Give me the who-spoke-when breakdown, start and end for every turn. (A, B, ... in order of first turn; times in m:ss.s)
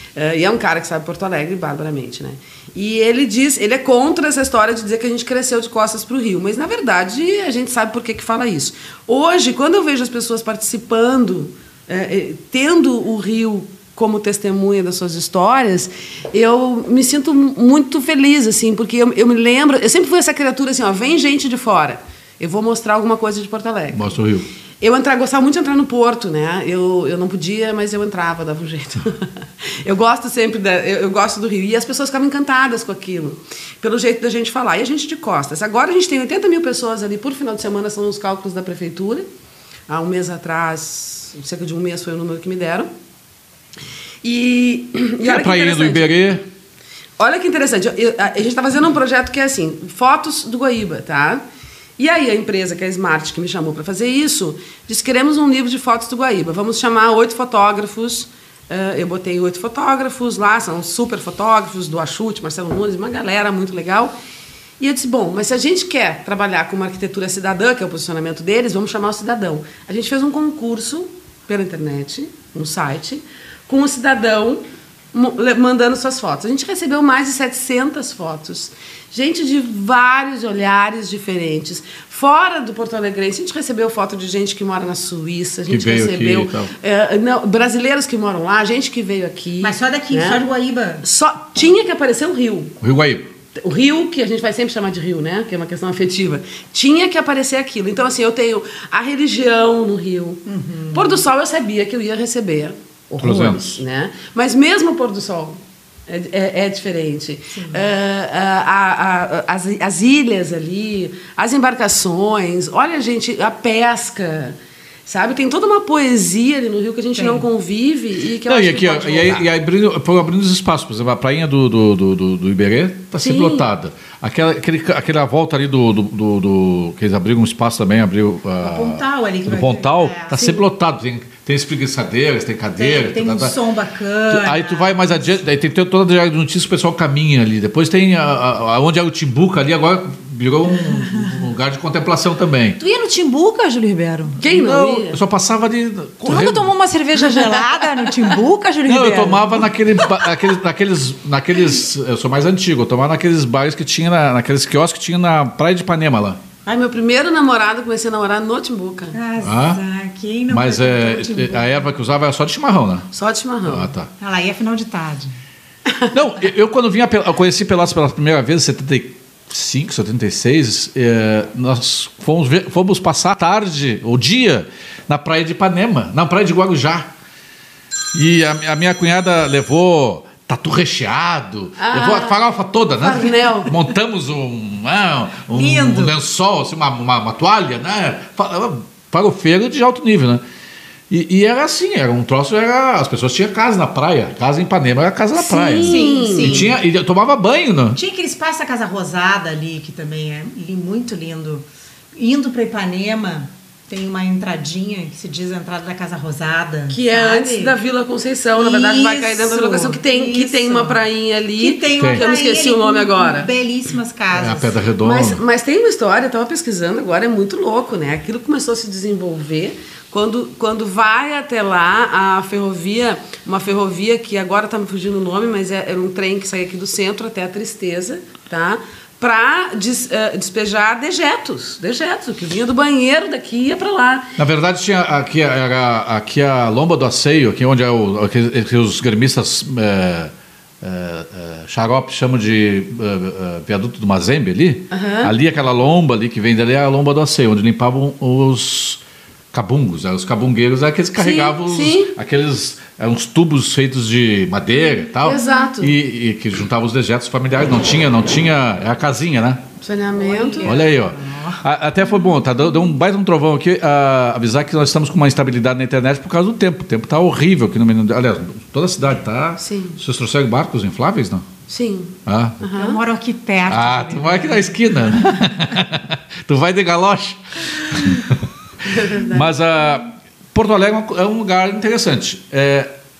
0:00.1-0:24.2 A
0:23.9-0:24.5 B
0:24.8-0:39.3 A
0:39.9-0:42.9 A
0:44.2-0:46.1 A
0:45.2-0:46.4 B
0:47.2-0:51.4 A
0:52.0-1:04.1 A
1:04.8-1:30.4 A
1:25.7-1:26.7 B
1:29.6-1:31.0 C
1:31.0-1:32.8 A
1:32.8-1:33.3 B
1:33.6-1:59.4 A
1:40.5-1:41.2 C
1:43.2-1:43.8 B
1:47.5-1:47.8 C
1:57.2-1:57.5 C
1:58.5-2:13.6 B
2:03.2-2:03.7 A
2:08.6-2:10.7 C
2:12.8-2:15.4 C
2:14.3-2:22.8 B
2:21.0-2:21.3 C
2:22.8-2:24.4 C
2:24.4-2:25.2 A
2:24.4-2:26.7 B
2:26.2-2:29.7 C
2:27.3-2:27.6 A
2:28.9-2:36.4 B
2:36.7-2:39.2 A
2:39.1-2:41.8 C
2:39.4-2:39.8 B
2:40.5-2:43.1 B
2:43.1-2:43.9 A
2:43.6-2:44.1 B
2:44.2-2:45.3 C
2:46.1-2:57.1 B
2:58.1-3:10.4 B
3:01.8-3:02.4 A
3:03.0-3:03.8 A
3:05.5-3:06.1 C
3:11.1-3:18.0 B
3:15.4-3:16.7 A
3:15.8-3:16.7 C
3:17.9-3:27.8 C
3:26.9-3:33.5 A
3:28.6-3:31.0 C
3:31.6-3:34.8 C
3:34.3-3:35.4 B
3:35.0-3:54.3 A
3:54.4-4:09.0 B
4:04.9-4:05.3 A
4:09.5-4:19.6 B
4:11.2-4:12.1 A
4:15.2-4:16.0 A
4:19.8-4:20.8 A
4:20.2-4:22.4 C
4:20.6-4:31.5 B
4:29.6-4:30.0 A
4:31.7-4:33.0 A
4:32.3-4:32.6 B
4:32.8-4:35.5 C
4:33.7-4:42.9 B
4:38.9-4:39.5 A